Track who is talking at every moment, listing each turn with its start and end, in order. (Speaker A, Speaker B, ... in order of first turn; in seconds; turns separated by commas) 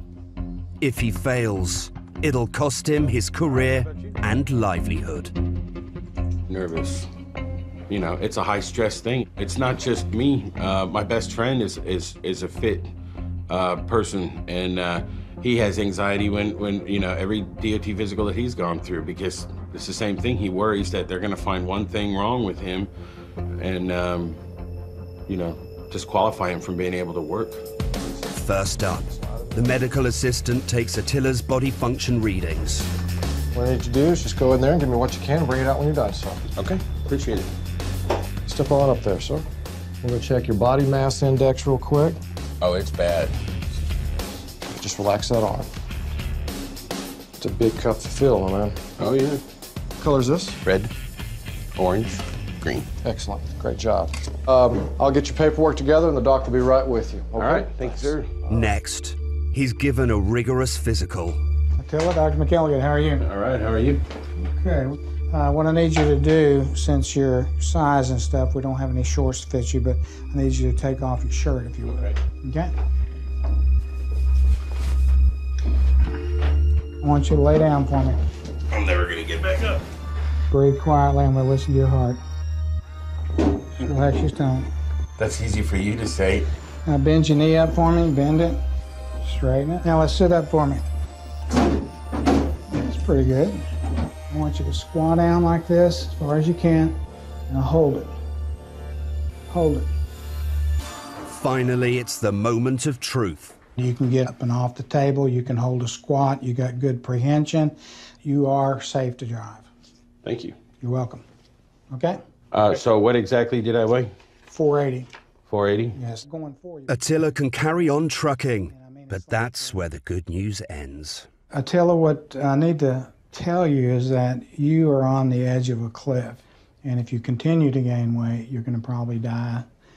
Speaker A: 0.8-5.3, Speaker B: 6.5-7.1, Speaker B: 7.9-12.9, Speaker B: 13.5-22.9, Speaker B: 23.6-24.4, Speaker B: 25.3-27.6, Speaker A: 28.3-32.9, Speaker C: 33.5-36.4, Speaker B: 36.5-37.5, Speaker C: 38.5-39.5, Speaker C: 40.0-42.2, Speaker B: 42.6-43.4, Speaker C: 44.7-45.7, Speaker C: 47.4-48.8, Speaker B: 49.0-49.4, Speaker C: 50.0-50.6, Speaker B: 50.6-50.9, Speaker B: 51.8-52.9, Speaker C: 53.0-58.2, Speaker B: 57.4-58.3, Speaker A: 58.5-61.4, Speaker D: 61.8-63.2, Speaker B: 63.2-64.0, Speaker D: 64.4-72.7, Speaker B: 71.9-72.2, Speaker D: 77.0-78.2, Speaker B: 78.7-79.8, Speaker D: 80.5-82.2, Speaker D: 83.8-84.7, Speaker B: 85.2-86.5, Speaker D: 86.9-88.6, Speaker D: 89.2-90.8, Speaker D: 92.7-93.6, Speaker D: 94.3-97.0, Speaker D: 97.5-98.1, Speaker D: 99.5-99.9, Speaker A: 101.2-103.6, Speaker D: 103.8-109.7, Speaker B: 110.2-110.5, Speaker D: 110.8-111.2, Speaker D: 111.9-112.2, Speaker B: 112.5-114.1, Speaker D: 114.5-115.1, Speaker B: 115.5-116.0, Speaker D: 116.0-117.2, Speaker A: 116.9-121.3, Speaker D: 118.7-119.8, Speaker D: 121.5-129.7